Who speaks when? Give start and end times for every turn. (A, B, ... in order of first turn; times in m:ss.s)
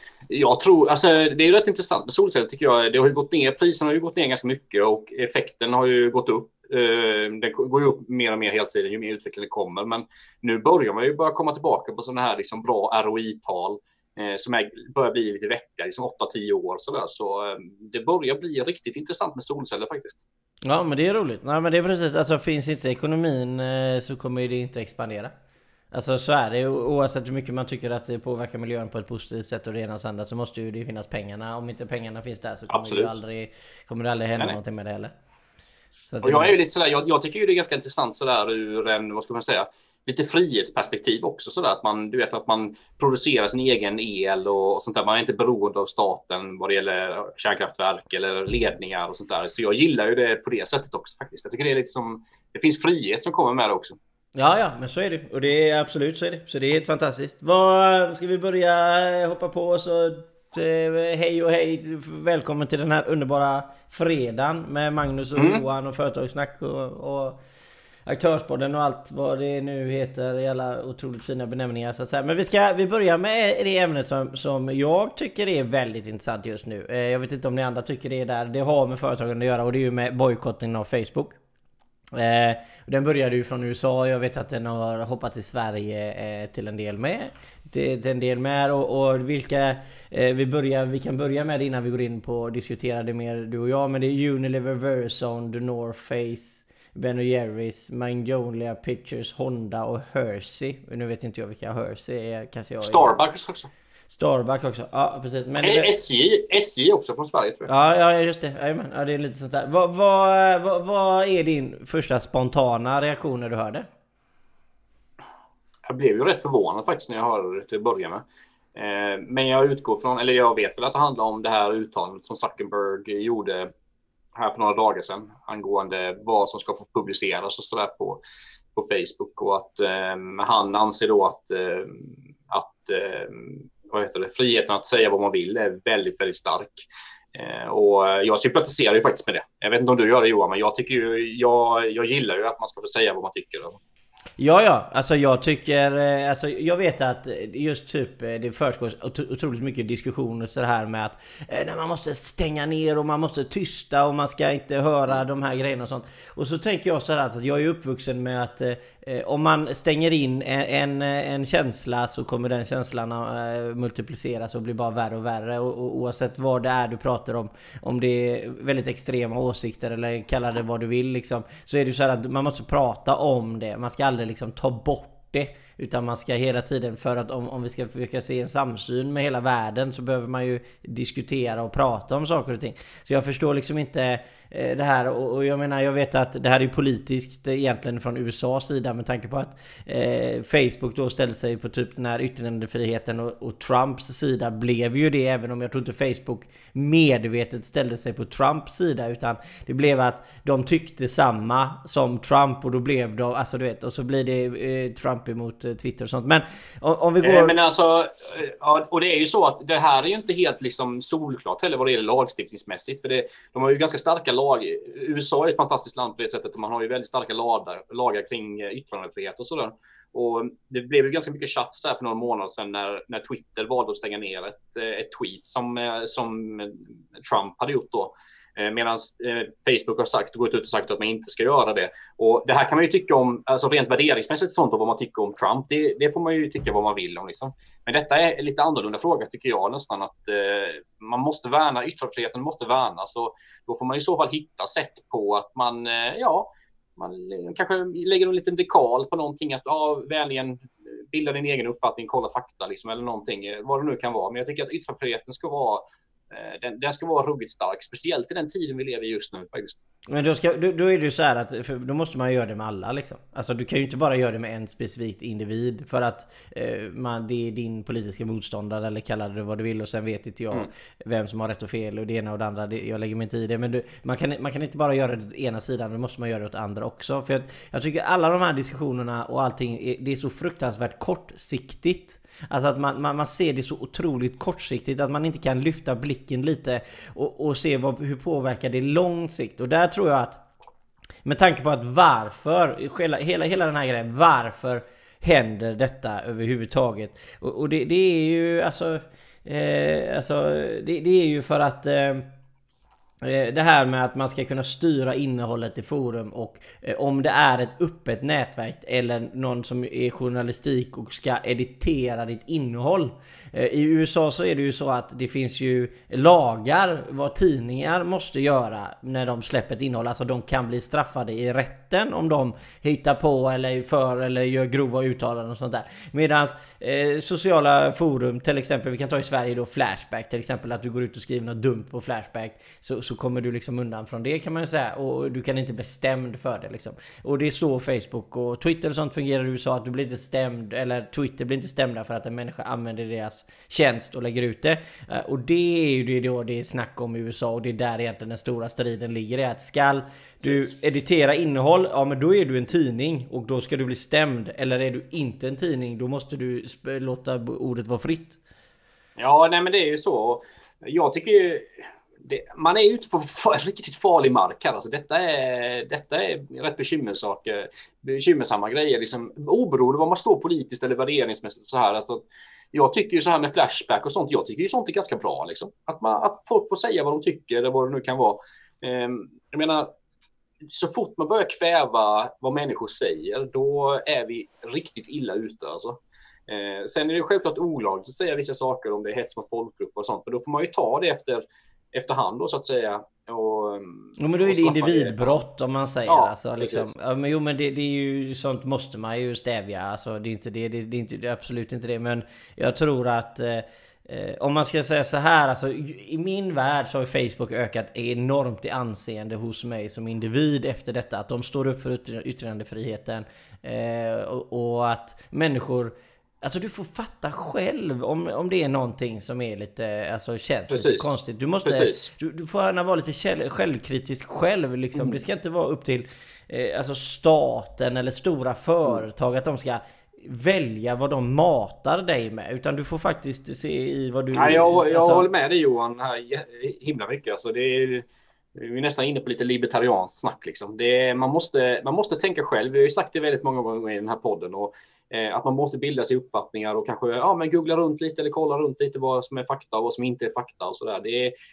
0:00.3-0:20.2 A
0:20.6-0:25.3 B
0:25.9-0:35.1 B
0:32.7-0:33.1 A
0:36.1-0:36.5 B
0:36.2-0:54.0 A
0:54.3-1:07.4 B
1:05.4-1:05.6 A
1:08.0-1:21.4 B
1:22.1-1:43.1 B
1:42.8-1:43.7 A
1:44.1-1:45.9 B
1:45.6-1:47.7 A
1:47.7-1:53.9 B
1:55.9-2:03.7 A
2:04.4-2:08.2 A
2:08.7-2:23.8 A
2:24.4-3:27.5 B
3:27.2-4:19.8 A
4:20.1-4:50.4 B
4:51.2-5:02.2 B
5:03.2-5:58.4 B
5:59.2-6:19.9 A
6:20.7-6:35.4 A
6:34.2-7:15.3 B
6:36.1-6:36.9 A
7:00.7-7:02.1 A
7:14.3-7:31.3 A